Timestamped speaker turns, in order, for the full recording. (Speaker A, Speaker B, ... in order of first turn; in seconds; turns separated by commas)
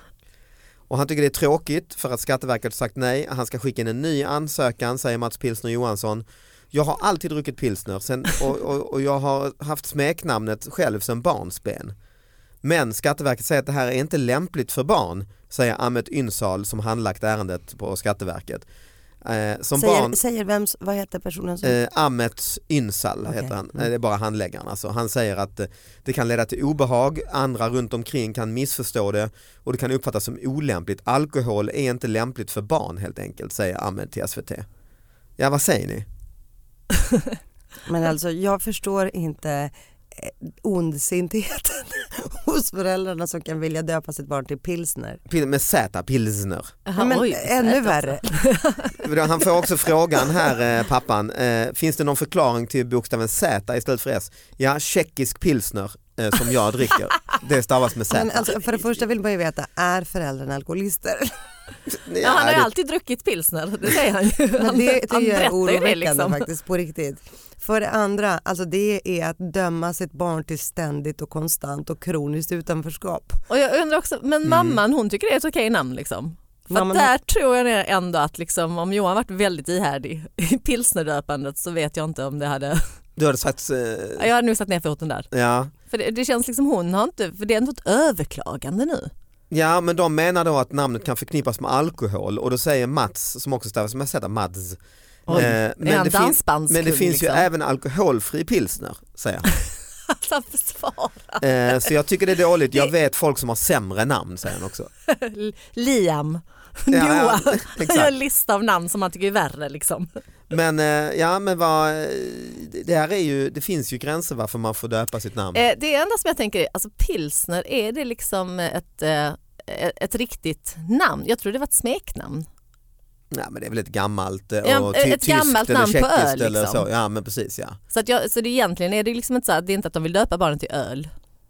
Speaker A: 0.9-11.9, Speaker A: 12.6-18.6, Speaker A: 19.2-20.2, Speaker B: 19.8-21.8, Speaker A: 21.6-34.6, Speaker B: 23.2-23.5, Speaker A: 35.4-36.0, Speaker B: 37.9-45.2, Speaker A: 45.3-46.8, Speaker C: 46.9-49.0, Speaker B: 47.0-48.4, Speaker A: 49.0-58.6, Speaker B: 58.1-61.3, Speaker A: 61.9-62.7, Speaker C: 62.2-66.5, Speaker B: 64.6-73.4, Speaker C: 73.5-82.8, Speaker A: 74.4-74.8, Speaker B: 76.7-77.1, Speaker A: 83.2-84.3, Speaker C: 84.2-85.3, Speaker A: 85.3-85.7, Speaker C: 85.9-89.1, Speaker A: 89.5-99.5, Speaker C: 95.3-97.5, Speaker C: 100.1-101.8, Speaker A: 101.4-104.9, Speaker C: 105.1-110.1, Speaker A: 106.9-108.1, Speaker A: 110.5-115.6, Speaker C: 115.5-122.5, Speaker A: 123.3-127.8, Speaker C: 124.6-126.8, Speaker C: 127.9-131.1